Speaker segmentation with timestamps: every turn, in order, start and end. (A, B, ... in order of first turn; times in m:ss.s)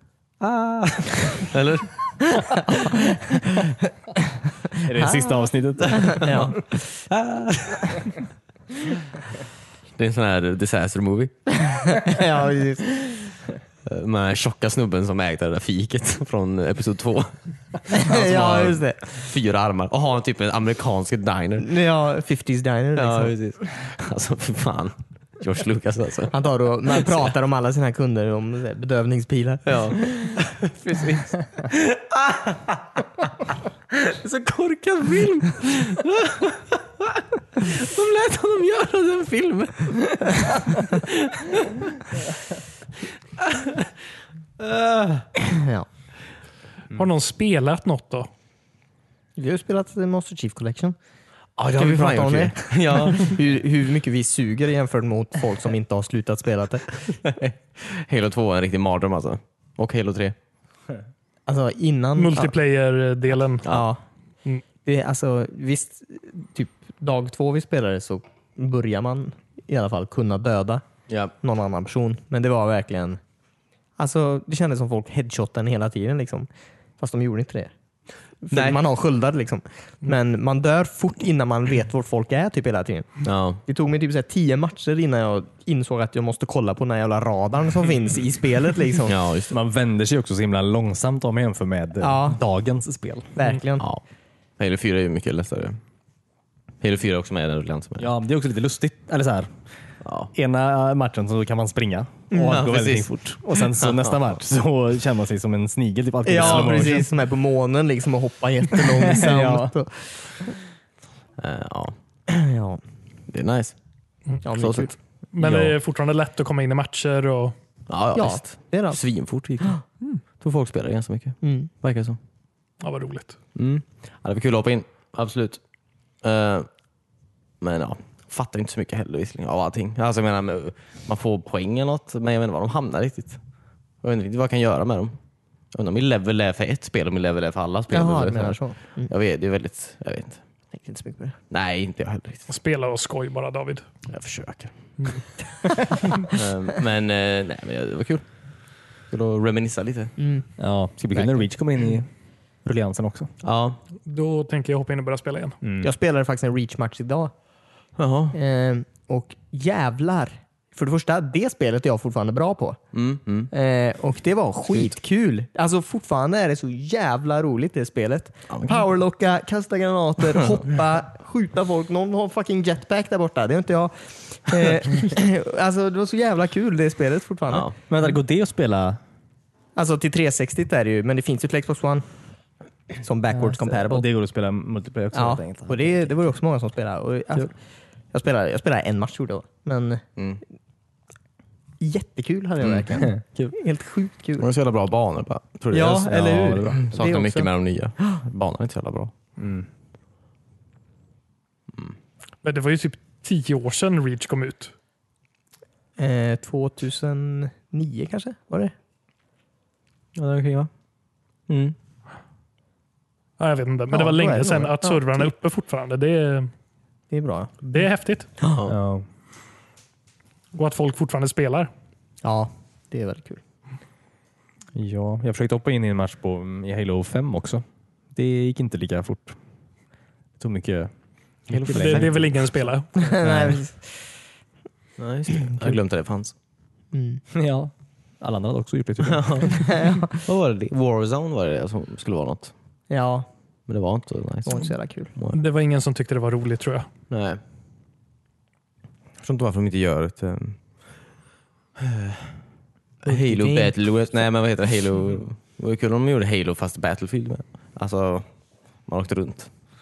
0:00.4-0:01.9 A
0:02.3-0:03.2 B
0:04.8-0:06.6 C
0:05.0-0:05.4 B
0:05.9-0:08.1 A
0:05.9-0:06.8 B
0:10.0-0:11.3 A
0:11.6-0:13.2 B
0:13.9-0:21.7 A
0:17.9-0:19.1 B
0:21.6-0:23.4 B
0:23.0-0:26.3 A
0:26.3-0:30.2 B
0:26.9-0:27.2 A
0:29.6-0:33.0 A
0:33.9-0:41.8 A
0:43.4-0:43.9 A
0:44.6-0:45.3 A
0:45.4-0:45.9 B
0:46.9-0:48.3 D
0:49.4-0:51.0 B
0:51.6-0:53.3 A
0:51.8-0:57.3 B
0:57.2-1:00.4 A
1:01.5-1:02.5 B
1:02.2-1:03.7 D
1:03.7-1:04.0 B
1:04.8-1:10.8 B
1:11.4-1:13.2 B
1:14.0-1:16.5 B
1:17.0-1:17.7 B
1:18.4-1:29.2 B
1:18.5-1:18.8 A
1:23.2-1:23.6 A
1:29.1-1:29.5 A
1:29.5-1:33.3 C
1:32.0-1:32.4 B
1:33.4-1:33.9 B
1:34.6-1:35.8 A
1:36.8-1:38.1 A
1:38.0-1:39.5 C
1:40.0-1:40.3 A
1:40.3-1:47.1 C
1:42.3-1:42.6 B
1:42.4-1:44.2 A
1:46.2-1:50.6 B
1:46.4-1:46.6 A
1:48.7-1:49.7 C
1:51.4-1:52.0 A
1:52.3-1:52.8 B
1:53.3-1:53.8 A
1:54.4-1:55.0 B
1:54.6-1:54.9 A
1:55.3-1:57.6 D
1:55.4-1:55.8 C
1:57.9-1:59.8 A
1:58.2-1:59.0 B
2:00.4-2:02.2 A
2:01.4-2:01.7 B
2:02.8-2:03.4 D
2:03.6-2:05.6 A
2:06.2-2:06.7 A
2:07.6-2:13.4 A
2:14.0-2:15.2 A
2:15.7-2:20.4 A
2:17.9-2:19.1 B
2:20.7-2:21.4 B
2:21.5-2:22.5 A
2:22.5-2:23.8 D
2:24.1-2:24.7 A
2:26.2-2:28.3 A
2:29.1-2:30.2 A
2:30.2-2:30.5 B
2:30.6-2:32.1 C
2:31.1-2:31.4 B
2:32.6-2:33.3 C
2:33.4-2:33.8 A
2:34.1-2:35.6 D
2:35.6-2:35.9 C
2:35.8-2:37.3 B
2:38.0-2:38.4 A
2:38.3-2:42.8 B
2:42.9-2:43.5 A
2:43.5-2:57.7 B
2:48.5-2:48.8 A
2:57.5-2:57.8 A
2:57.9-2:59.0 C
2:59.8-3:02.1 B
3:02.9-3:04.1 B
3:03.3-3:06.2 C
3:05.1-3:07.5 B
3:08.1-3:10.0 B
3:11.8-3:14.5 B
3:12.6-3:12.9 A
3:13.0-3:13.5 C
3:14.4-3:16.2 A
3:15.7-3:17.5 B
3:15.9-3:17.0 C
3:16.8-3:19.1 A
3:19.4-3:19.7 C
3:22.4-3:24.7 D
3:26.0-3:28.7 B
3:30.2-3:30.7 A
3:33.4-3:36.5 D
3:33.9-3:35.3 B
3:37.1-3:37.6 B
3:37.6-3:38.3 D
3:38.4-3:38.8 A
3:38.7-3:39.0 C
3:40.5-3:41.7 D
3:42.2-3:43.4 B
3:44.8-3:49.4 C
3:50.4-3:50.9 C
3:51.5-3:52.2 A
3:51.5-3:52.3 C
3:51.7-3:52.9 D
3:53.0-3:53.8 B
3:53.2-3:53.6 C
3:55.0-3:56.3 A
3:56.9-3:57.2 B
3:57.3-3:59.8 C
3:59.0-3:59.6 A
3:59.5-4:00.2 B
4:00.2-4:02.5 A
4:02.9-4:03.3 B
4:03.7-4:05.4 A
4:04.5-4:05.1 B
4:05.3-4:06.9 D
4:07.1-4:07.4 A
4:09.2-4:10.6 A
4:11.8-4:12.3 A
4:13.0-4:18.3 A
4:13.1-4:13.7 B
4:18.9-4:19.5 A